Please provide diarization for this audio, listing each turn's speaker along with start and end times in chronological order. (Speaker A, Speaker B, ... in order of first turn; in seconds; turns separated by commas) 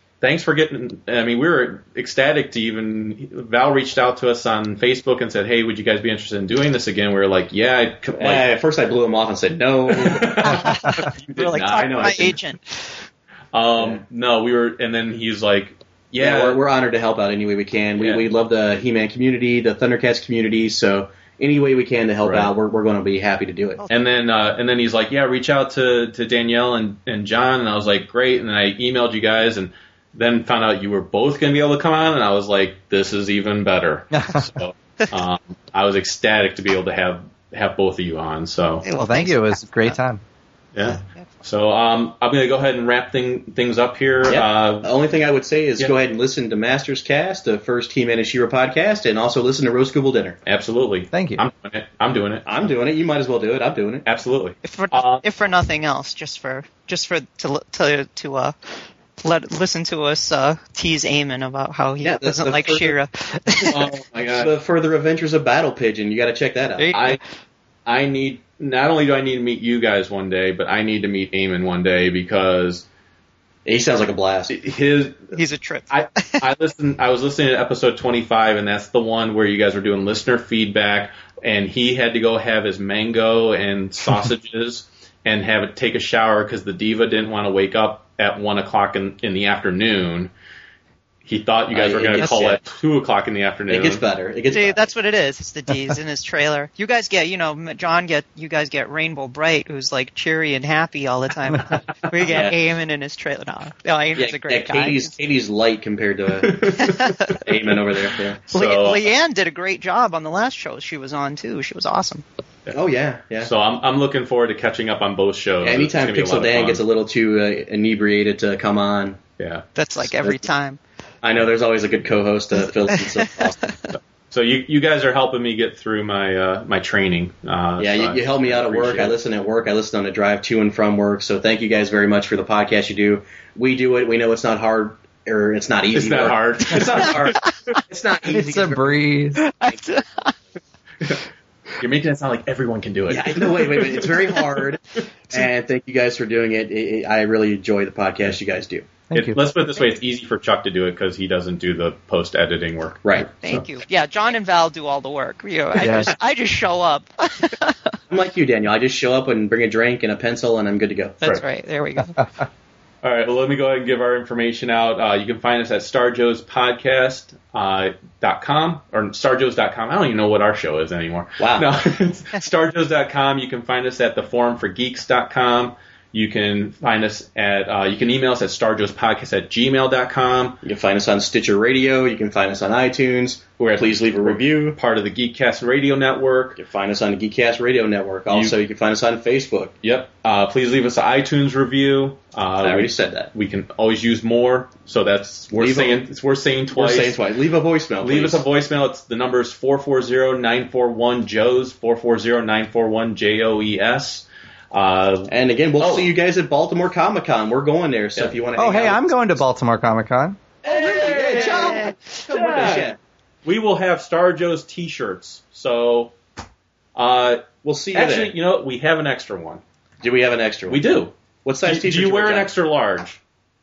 Speaker A: 0.2-8.4, Speaker B: 8.2-10.7, Speaker A: 9.9-12.4, Speaker C: 10.4-12.8, Speaker A: 13.5-16.6, Speaker B: 13.8-14.0, Speaker B: 16.2-23.8, Speaker A: 18.0-18.3, Speaker A: 22.2-22.5, Speaker A: 23.9-38.8, Speaker D: 34.1-34.4, Speaker C: 38.8-40.0, Speaker D: 39.0-40.2, Speaker A: 40.7-44.9, Speaker C: 40.8-41.3, Speaker B: 44.3-50.4, Speaker A: 50.5-52.5, Speaker D: 51.1-51.4, Speaker B: 52.5-54.0, Speaker A: 54.0-55.2, Speaker C: 54.6-58.5, Speaker C: 59.2-63.8, Speaker B: 62.0-62.9, Speaker A: 63.7-64.5, Speaker B: 64.4-66.9, Speaker C: 66.8-67.2, Speaker A: 66.9-67.2, Speaker A: 67.8-72.8, Speaker B: 73.7-74.5, Speaker A: 74.5-75.3, Speaker C: 75.3-76.4, Speaker A: 75.9-90.3, Speaker A: 91.2-94.0, Speaker B: 91.7-92.6, Speaker B: 93.7-94.9, Speaker C: 94.5-105.1, Speaker B: 102.2-102.5, Speaker B: 104.2-108.4, Speaker A: 106.4-106.9, Speaker C: 106.8-107.4, Speaker A: 108.4-109.1, Speaker C: 108.5-112.2, Speaker B: 112.7-113.5, Speaker A: 113.4-116.8, Speaker B: 115.6-119.2, Speaker A: 119.4-119.6, Speaker C: 119.8-120.8, Speaker B: 120.2-120.4, Speaker B: 121.2-123.8, Speaker C: 122.9-123.9, Speaker A: 123.9-129.2, Speaker B: 127.8-139.1, Speaker A: 135.9-137.6, Speaker D: 138.3-139.4, Speaker C: 139.3-140.3, Speaker A: 141.8-144.6, Speaker B: 143.1-148.9, Speaker D: 149.1-149.4, Speaker A: 149.1-153.6, Speaker B: 153.0-153.3, Speaker C: 153.4-158.0, Speaker D: 155.8-156.1, Speaker B: 158.1-161.2, Speaker C: 161.2-162.2, Speaker A: 163.0-180.6, Speaker B: 171.4-171.7, Speaker B: 180.6-184.8, Speaker A: 183.6-186.6, Speaker B: 186.6-189.7, Speaker A: 188.3-188.6, Speaker A: 189.8-197.2, Speaker B: 192.6-193.3, Speaker B: 195.5-196.0, Speaker B: 196.7-198.4, Speaker A: 198.0-206.1, Speaker B: 205.3-209.4, Speaker D: 208.6-210.4, Speaker A: 210.6-216.1, Speaker B: 210.7-213.0, Speaker C: 210.7-212.2, Speaker A: 216.9-219.6, Speaker B: 217.6-218.3, Speaker B: 220.0-222.5, Speaker A: 220.7-223.2